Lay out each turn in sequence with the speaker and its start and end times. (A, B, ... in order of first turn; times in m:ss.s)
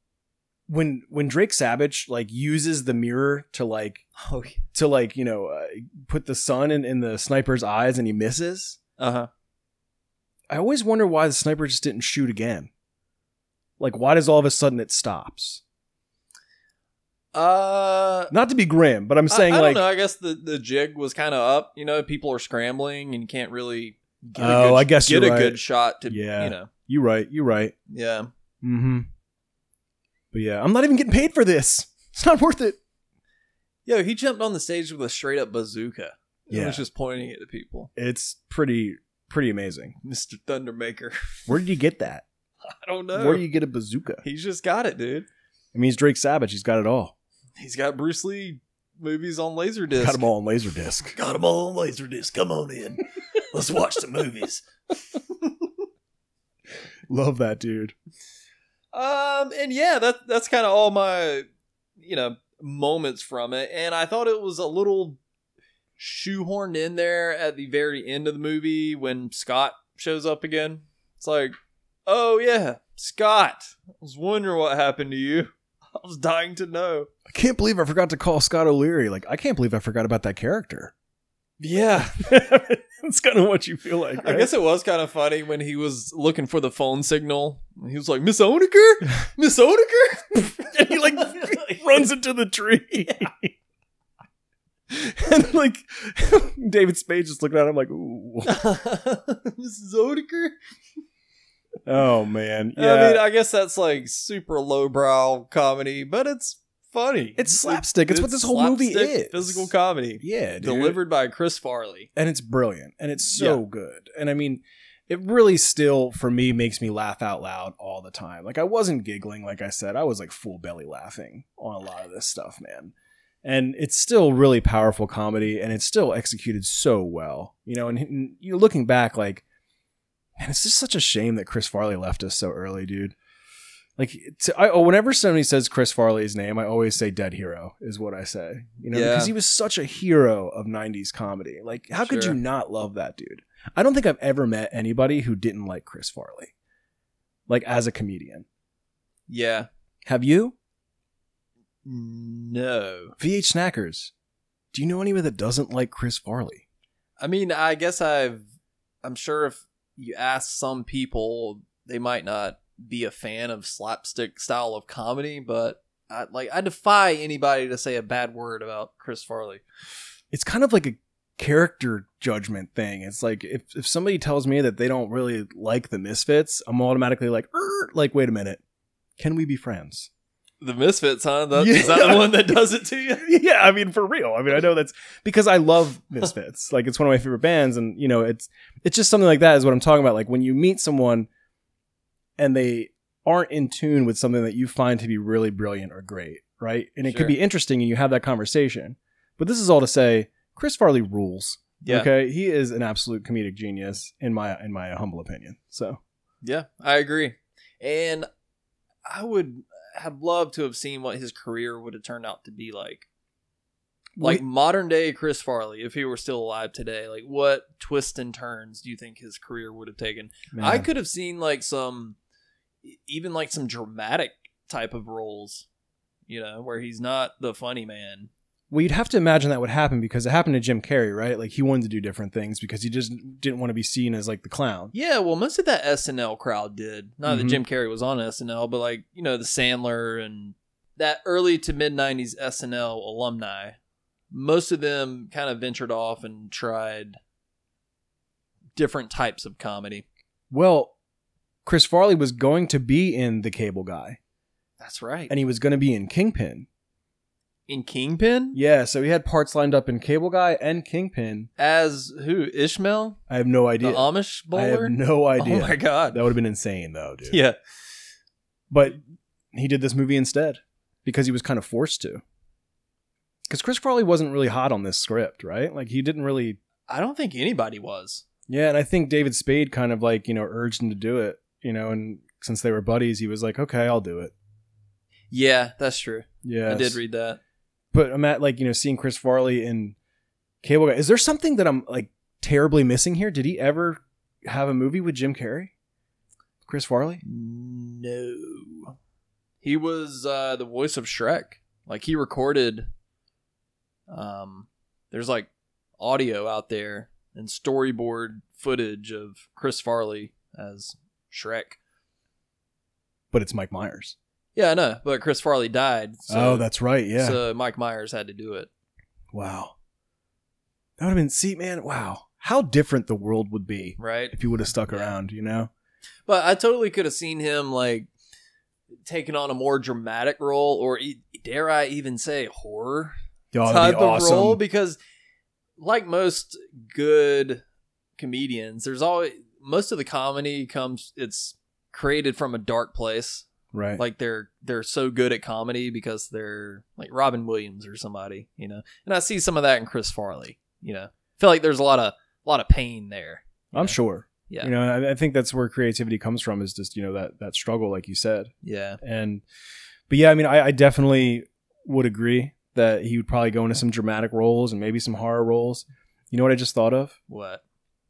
0:00.7-0:04.0 A
0:04.2-0:04.6 B
0:04.7-0:08.8 A
0:09.0-0:09.3 B
0:10.5-0:12.7 A
0:13.8-0:15.6 A
0:17.3-0:18.3 B
0:18.3-0:19.8 A
0:19.3-0:26.7 B
0:24.4-0:27.7 A
0:27.9-0:28.3 B
0:28.6-0:29.1 A
0:30.3-0:32.8 A
0:33.8-0:37.9 B
0:36.5-0:36.8 A
0:38.0-0:40.0 A
0:40.0-0:41.5 B
0:41.5-0:42.2 A
0:42.6-0:43.5 B
0:43.1-0:44.2 A
0:44.2-0:45.3 B
0:45.7-0:47.1 A
0:47.6-0:50.2 B
0:50.0-0:51.1 A
0:51.1-0:55.7 B
0:57.1-0:57.9 A
0:58.9-1:01.4 B
1:02.0-1:05.2 B
1:06.0-1:11.6 B
1:12.1-1:17.1 B
1:17.3-1:20.9 A
1:21.6-1:22.3 B
1:22.2-1:24.5 A
1:24.2-1:32.0 B
1:30.4-1:33.5 A
1:34.9-1:38.6 A
1:38.4-1:40.5 B
1:41.8-1:43.2 A
1:42.8-1:52.1 B
1:47.4-1:51.0 A
1:52.2-2:02.9 A
1:53.3-1:53.6 B
2:03.4-2:09.4 A
2:10.4-2:13.2 A
2:14.0-2:26.5 A
2:18.9-2:19.3 B
2:22.0-2:22.4 B
2:27.5-2:28.4 A
2:29.3-2:29.7 B
2:30.0-2:30.5 A
2:31.8-2:33.1 B
2:33.2-2:34.1 A
2:34.7-2:36.6 A
2:37.2-2:38.5 B
2:39.0-2:49.6 B
2:50.3-2:58.6 A
2:59.2-3:00.1 A
3:00.6-3:03.2 B
3:01.5-3:02.5 A
3:03.2-3:11.3 A
3:12.4-3:26.0 A
3:17.0-3:17.4 B
3:21.8-3:22.1 B
3:26.4-3:28.3 B
3:29.0-3:33.1 B
3:34.2-3:34.4 A
3:34.2-3:42.2 B
3:40.5-3:40.9 A
3:42.8-3:45.6 B
3:46.3-3:48.3 B
3:48.7-3:54.9 A
3:54.9-4:03.8 B
3:57.2-3:57.6 A
4:04.3-4:07.2 B
4:08.8-4:10.0 B
4:10.5-4:10.9 A
4:11.6-4:14.2 A
4:14.8-4:15.3 B
4:15.3-4:16.7 A
4:17.7-4:18.6 B
4:18.5-4:21.5 A
4:21.6-4:23.2 B
4:23.3-4:27.4 A
4:23.8-4:26.2 B
4:27.3-4:27.6 B
4:28.7-4:29.0 A
4:29.5-4:32.2 A
4:33.5-4:36.6 A
4:36.9-4:38.2 B
4:38.5-4:44.3 A
4:45.3-4:47.4 B
4:46.4-4:47.0 A
4:47.9-4:50.0 A
4:50.6-4:55.7 A
4:56.6-4:57.2 A
4:57.2-4:58.9 B
4:59.6-5:02.9 B
5:04.1-5:11.8 B
5:13.3-5:14.2 A
5:14.5-5:18.7 B
5:16.3-5:17.4 A
5:19.3-5:19.7 A
5:21.0-5:25.7 A
5:24.0-5:24.3 B
5:24.9-5:25.1 B
5:26.2-5:28.1 B
5:29.0-5:35.0 B
5:33.5-5:34.6 A
5:35.8-5:37.6 B
5:38.2-5:54.7 B
5:43.7-5:44.0 A
5:53.7-5:59.4 A
5:58.6-5:59.0 B
6:00.1-6:07.1 A
6:07.3-6:07.6 B